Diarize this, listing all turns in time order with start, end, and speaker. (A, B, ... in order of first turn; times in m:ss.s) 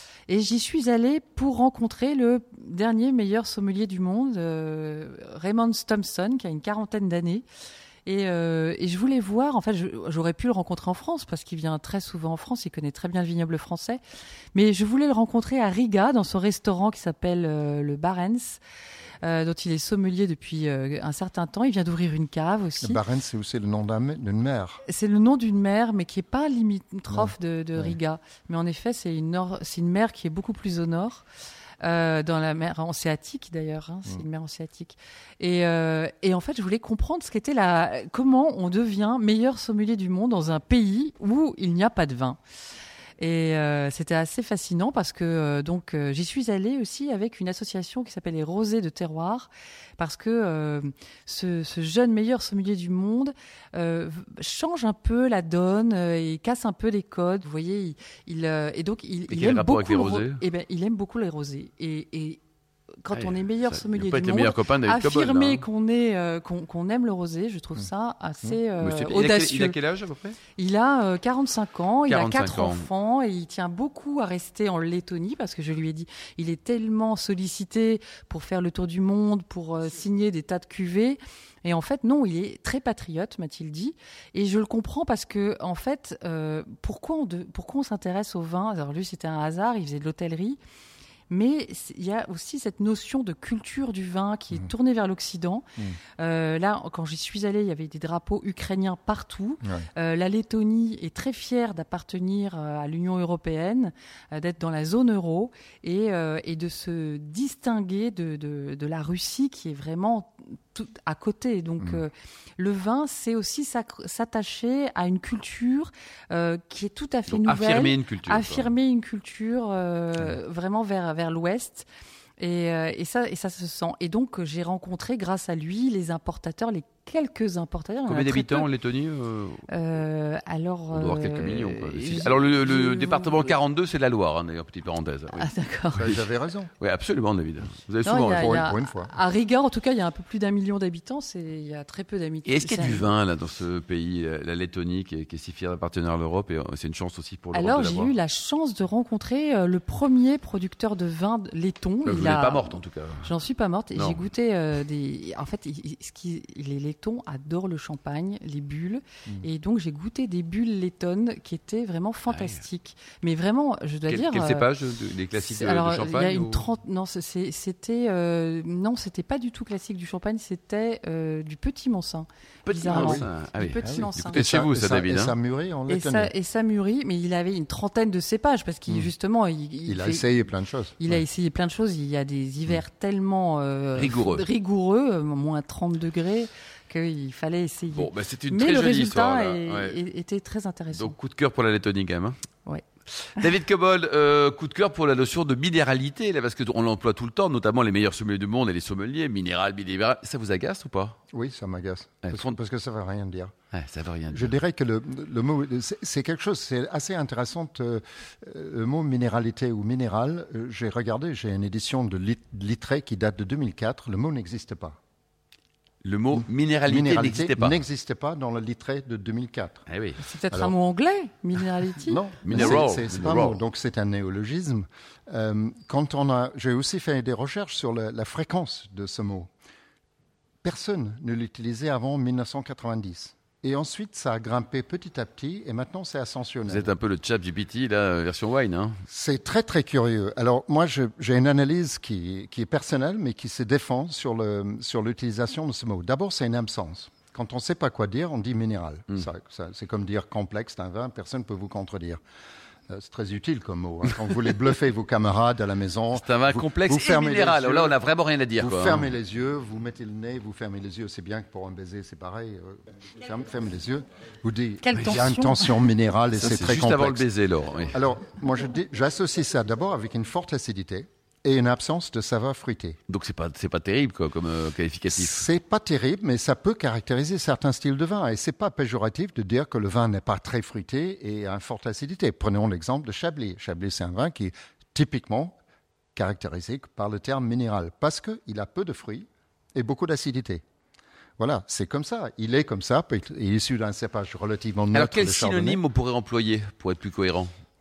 0:00.3-0:07.4 A
0:08.0-0:14.0 A
0:14.5-0:18.6 A
0:19.2-0:23.0 A
0:22.8-0:24.8 B
0:24.8-0:31.2 A
0:27.1-0:28.0 B
0:31.8-0:42.4 A
0:43.2-1:02.4 A
0:59.3-1:00.4 C
1:03.0-1:09.8 A
1:03.1-1:05.6 C
1:08.8-1:10.4 C
1:10.6-1:30.6 A
1:12.1-1:12.9 C
1:31.3-1:35.6 A
1:36.2-2:01.9 A
1:57.3-1:58.7 C
2:02.4-2:08.7 A
2:08.1-2:09.6 C
2:09.7-2:13.5 A
2:10.9-2:15.4 C
2:15.3-2:16.1 A
2:15.9-2:16.7 B
2:16.8-2:18.5 C
2:18.0-2:23.1 A
2:18.3-2:19.1 B
2:22.4-2:28.1 C
2:27.5-2:44.7 A
2:32.0-2:33.3 C
2:33.9-2:34.2 C
2:42.3-2:42.6 C
2:44.1-2:46.7 C
2:45.3-2:54.4 A
2:52.6-2:55.3 C
2:52.9-2:53.2 B
2:53.8-2:56.3 B
2:55.9-3:11.1 A
2:59.8-3:01.2 B
3:04.0-3:04.4 C
3:07.9-3:10.0 C
3:10.9-3:12.4 C
3:13.2-3:21.2 C
3:21.3-3:23.5 B
3:22.2-3:22.6 C
3:23.7-3:24.5 C
3:24.3-3:35.0 B
3:36.0-3:37.8 C
3:36.3-3:39.8 B
3:39.9-3:40.2 C
3:40.2-3:42.2 A
3:42.0-3:49.5 B
3:42.4-3:43.6 C
3:50.6-3:56.9 B
3:56.7-3:59.0 C
3:59.1-4:12.2 B
4:12.9-4:18.0 B
4:16.1-4:19.1 C
4:18.6-4:27.2 B
4:24.8-4:25.9 A
4:26.3-4:27.9 C
4:27.9-4:33.0 B
4:33.1-4:35.4 C
4:35.1-4:45.6 B
4:46.2-4:50.6 B
4:51.4-4:55.8 B
4:54.9-4:57.5 C